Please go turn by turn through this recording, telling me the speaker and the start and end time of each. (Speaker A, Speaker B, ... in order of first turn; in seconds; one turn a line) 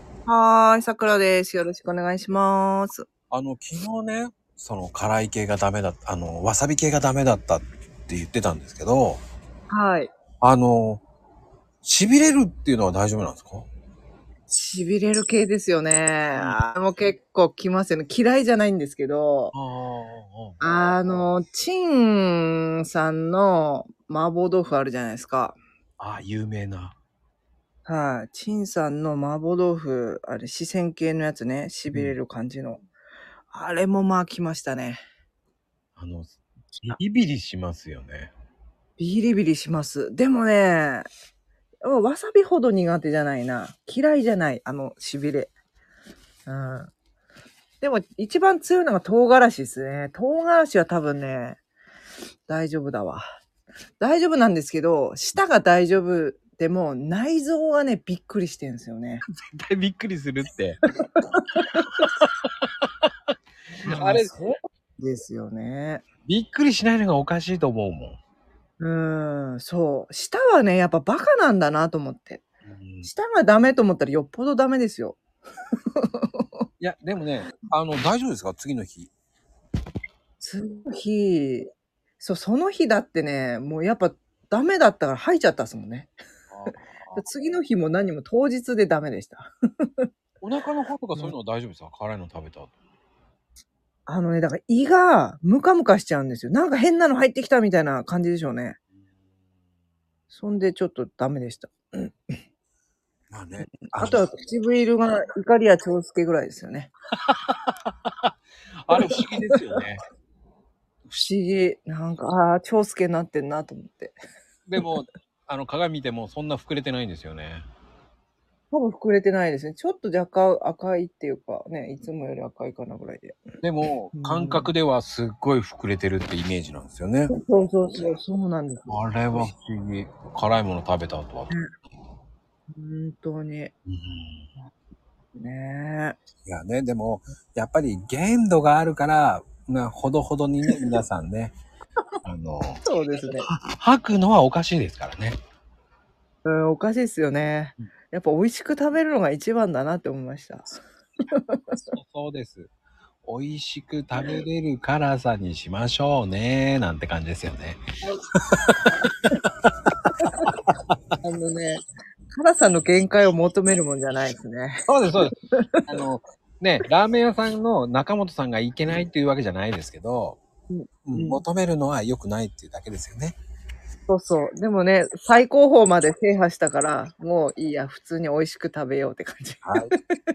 Speaker A: 0.3-3.1
Speaker B: 3.3-9.2
Speaker A: 9.7-10.1
Speaker B: 10.4-11.0
Speaker B: 11.8-13.7
Speaker A: 14.5-19.5
Speaker B: 19.5-20.6
Speaker A: 20.6-25.6
Speaker B: 26.0-27.0
Speaker A: 27.9-32.9
Speaker B: 31.9-32.2
Speaker A: 33.5-35.0
Speaker B: 36.0-38.3
Speaker A: 39.0-41.1
Speaker A: 41.8-45.5
Speaker A: 46.5-46.9
Speaker A: 47.8-51.6
Speaker A: 52.5-53.2
Speaker A: 54.0-59.2
Speaker B: 59.3-60.8
Speaker A: 61.2-61.7
Speaker B: 61.9-63.1
Speaker A: 63.9-64.5
Speaker B: 63.9-64.5
Speaker A: 65.0-66.0
Speaker B: 66.3-68.2
Speaker A: 68.8-72.4
Speaker B: 72.7-73.1
Speaker A: 73.0-75.2
Speaker A: 76.0-76.5
Speaker B: 76.8-79.1
Speaker A: 80.4-86.1
Speaker B: 86.5-87.2
Speaker A: 87.2-90.1
Speaker B: 90.4-92.7
Speaker A: 94.1-98.8
Speaker A: 100.3-102.3
Speaker B: 103.3-104.2
Speaker A: 104.0-106.9
Speaker B: 107.3-108.3
Speaker B: 108.9-110.0
Speaker A: 108.9-109.2
Speaker A: 111.1-114.2
Speaker B: 114.7-117.7
Speaker A: 118.7-123.4
Speaker B: 123.6-127.3
Speaker A: 124.2-124.7
Speaker A: 127.3-129.5
Speaker B: 128.9-131.5
Speaker A: 132.7-133.7
Speaker B: 133.9-134.5
Speaker A: 135.3-136.2
Speaker B: 136.4-141.6
Speaker B: 142.2-142.8
Speaker A: 142.8-143.5
Speaker B: 143.5-145.4
Speaker A: 146.4-150.7
Speaker A: 151.3-151.9
Speaker B: 151.9-152.7
Speaker B: 153.2-157.8
Speaker B: 158.5-158.9
Speaker A: 161.2-161.8
Speaker A: 162.3-164.8
Speaker B: 164.9-165.3
Speaker A: 165.4-165.9
Speaker B: 165.9-170.4
Speaker A: 170.7-171.4
Speaker B: 171.1-173.4
Speaker A: 174.1-180.2
Speaker B: 179.6-179.9